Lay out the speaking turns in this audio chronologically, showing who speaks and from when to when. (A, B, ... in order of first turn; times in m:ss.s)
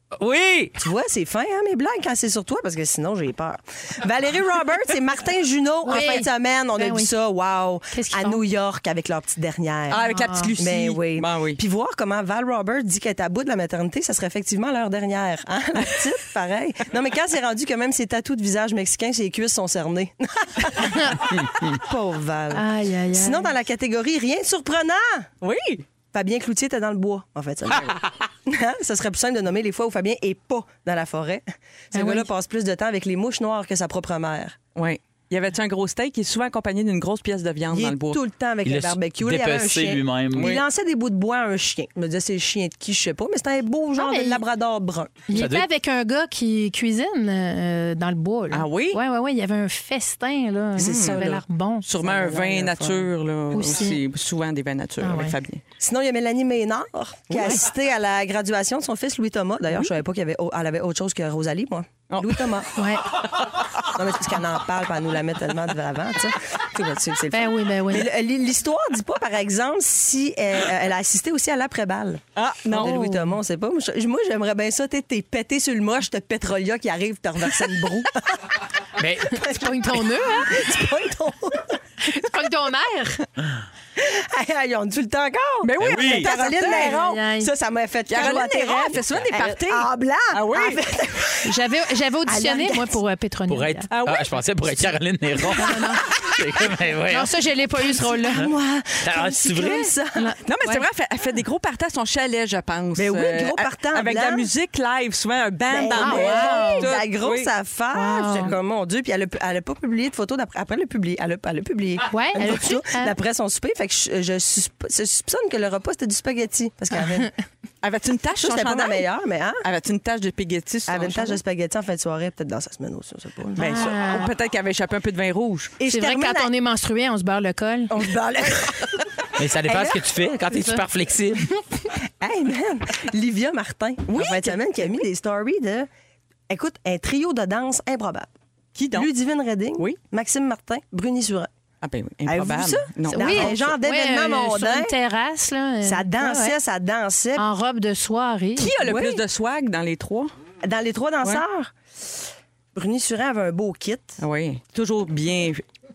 0:00.2-0:00.8 A
0:00.8-0:10.0 B
0:05.9-0:07.1 C
0:07.9-0:08.4 C
0:09.9-0:11.6 D
0:10.0-0:10.5 C
0:10.6-0:25.3 B
0:20.8-0:21.2 C
0:22.5-0:23.5 C
0:25.4-0:25.8 D
0:26.1-0:34.6 B
0:31.9-0:32.3 C
0:34.8-0:38.2 D
0:37.7-0:45.3 B
0:38.6-0:40.6 A
0:40.3-0:40.6 D
0:44.0-0:44.4 C
0:45.3-0:51.9 C
0:45.3-0:45.7 A
0:48.5-0:49.0 D
0:50.8-0:51.2 D
0:50.8-0:51.4 B
0:51.9-0:55.6 D
0:52.0-0:53.1 B
0:53.5-0:54.0 C
0:55.0-0:55.4 C
0:55.8-1:02.7 B
1:02.1-1:02.4 D
1:02.8-1:03.1 C
1:03.8-1:18.6 B
1:07.3-1:08.1 C
1:12.4-1:13.2 D
1:12.8-1:13.2 C
1:19.0-1:20.5 C
1:19.2-1:21.8 B
1:22.0-1:23.2 C
1:24.0-1:31.5 B
1:25.6-1:27.0 D
1:25.8-1:26.3 A
1:26.6-1:27.5 C
1:28.1-1:30.8 D
1:31.4-1:33.9 C
1:32.2-1:33.0 B
1:33.5-1:37.3 A
1:33.9-1:34.9 D
1:35.6-1:36.0 C
1:37.1-1:38.5 C
1:38.3-1:40.3 B
1:39.0-1:39.9 A
1:40.1-1:40.8 C
1:40.5-1:47.5 D
1:43.0-1:44.5 B
1:45.7-1:57.3 B
1:46.0-1:46.9 C
1:47.9-1:48.5 C
1:52.1-1:53.1 C
1:57.8-1:59.1 D
1:58.4-1:59.6 B
1:59.6-2:01.4 D
2:00.9-2:04.0 B
2:03.6-2:04.3 C
2:03.7-2:05.8 D
2:05.8-2:06.5 B
2:05.9-2:07.9 C
2:07.9-2:09.1 B
2:09.4-2:11.5 A
2:09.6-2:10.0 B
2:10.5-2:10.8 C
2:12.2-2:15.9 B
2:14.1-2:14.6 D
2:16.5-2:18.3 B
2:18.8-2:19.1 D
2:18.9-2:21.5 B
2:21.8-2:23.6 D
2:22.2-2:25.0 B
2:23.1-2:26.6 C
2:25.8-2:27.4 B
2:27.4-2:28.8 C
2:28.6-2:30.3 D
2:28.8-2:29.2 B
2:30.6-2:31.7 B
2:32.8-2:34.2 B
2:34.2-2:35.6 D